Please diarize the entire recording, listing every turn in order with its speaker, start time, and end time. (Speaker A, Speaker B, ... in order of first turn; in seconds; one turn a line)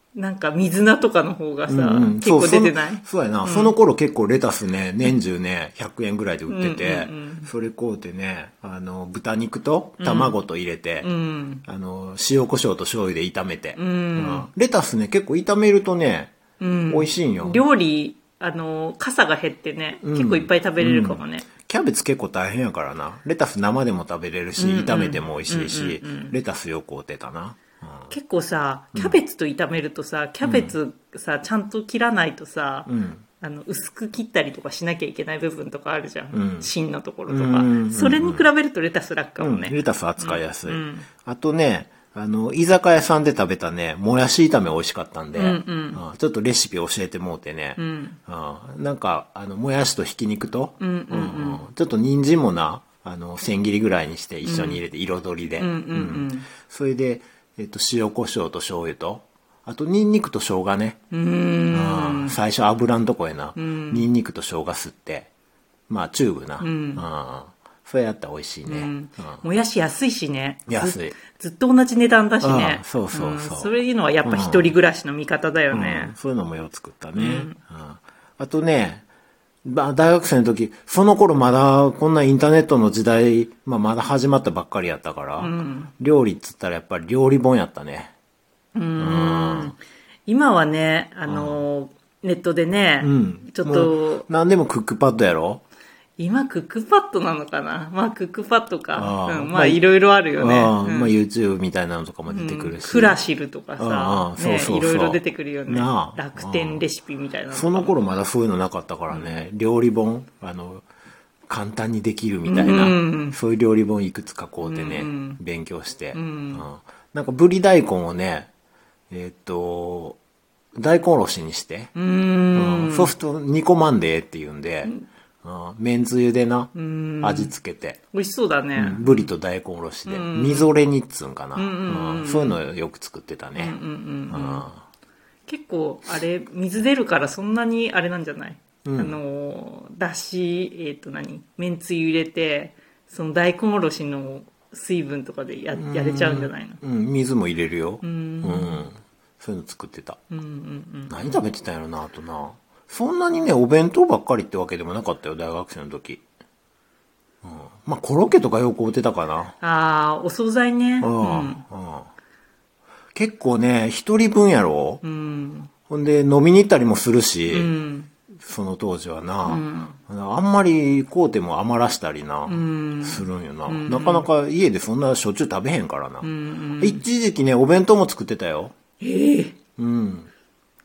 Speaker A: 0.1-3.8
Speaker B: 1.7-11.1
Speaker A: 6.5-7.5
Speaker A: 10.0-10.4
Speaker A: 11.0-11.6
Speaker B: 11.6-16.4
Speaker A: 13.8-14.5
Speaker A: 16.6-21.6
Speaker B: 16.9-17.7
Speaker B: 20.0-28.1
Speaker A: 24.6-26.4
Speaker A: 28.1-41.2
Speaker B: 28.9-29.2
Speaker B: 30.4-30.8
Speaker B: 32.9-33.3
Speaker B: 36.3-36.7
Speaker B: 37.3-38.5
Speaker B: 39.4-61.0
Speaker A: 45.3-46.0
Speaker A: 47.8-48.2
Speaker A: 50.8-51.6
Speaker A: 54.4-54.8
Speaker A: 55.6-56.5
Speaker A: 61.1-62.4
Speaker B: 61.7-65.3
Speaker A: 63.6-64.1
Speaker B: 65.9-69.4
Speaker A: 66.6-67.0
Speaker A: 68.7-76.2
Speaker B: 70.7-71.2
Speaker B: 72.4-74.8
Speaker B: 75.7-79.0
Speaker A: 77.2-77.6
Speaker B: 79.6-88.1
Speaker A: 85.4-85.9
Speaker A: 88.8-94.3
Speaker B: 89.0-89.8
Speaker B: 91.2-91.7
Speaker B: 93.0-95.6
Speaker A: 96.2-101.1
Speaker B: 98.9-103.2
Speaker A: 102.3-108.0
Speaker B: 103.8-106.8
Speaker B: 107.5-110.8
Speaker B: 111.5-118.5
Speaker A: 112.5-113.4
Speaker A: 114.6-115.4
Speaker A: 116.1-116.7
Speaker B: 119.1-120.2
Speaker B: 120.8-121.9
Speaker A: 122.0-123.1
Speaker B: 122.5-128.0
Speaker A: 126.7-127.5
Speaker A: 128.1-129.3
Speaker B: 128.8-134.8
Speaker A: 130.1-130.7
Speaker A: 131.6-132.6
Speaker A: 133.6-134.7
Speaker A: 135.5-146.8
Speaker B: 138.8-139.2
Speaker B: 145.7-150.2
Speaker A: 148.0-148.9
Speaker A: 150.3-151.3
Speaker B: 151.1-156.2
Speaker B: 157.4-159.5
Speaker A: 159.6-161.6
Speaker B: 161.0-162.1
Speaker B: 163.2-165.0
Speaker A: 165.0-165.8
Speaker B: 165.8-167.8
Speaker A: 167.5-168.1
Speaker B: 168.4-178.8
Speaker A: 169.4-170.0
Speaker A: 172.5-174.3
Speaker A: 176.2-177.1
Speaker A: 179.0-179.6
Speaker B: 179.7-180.3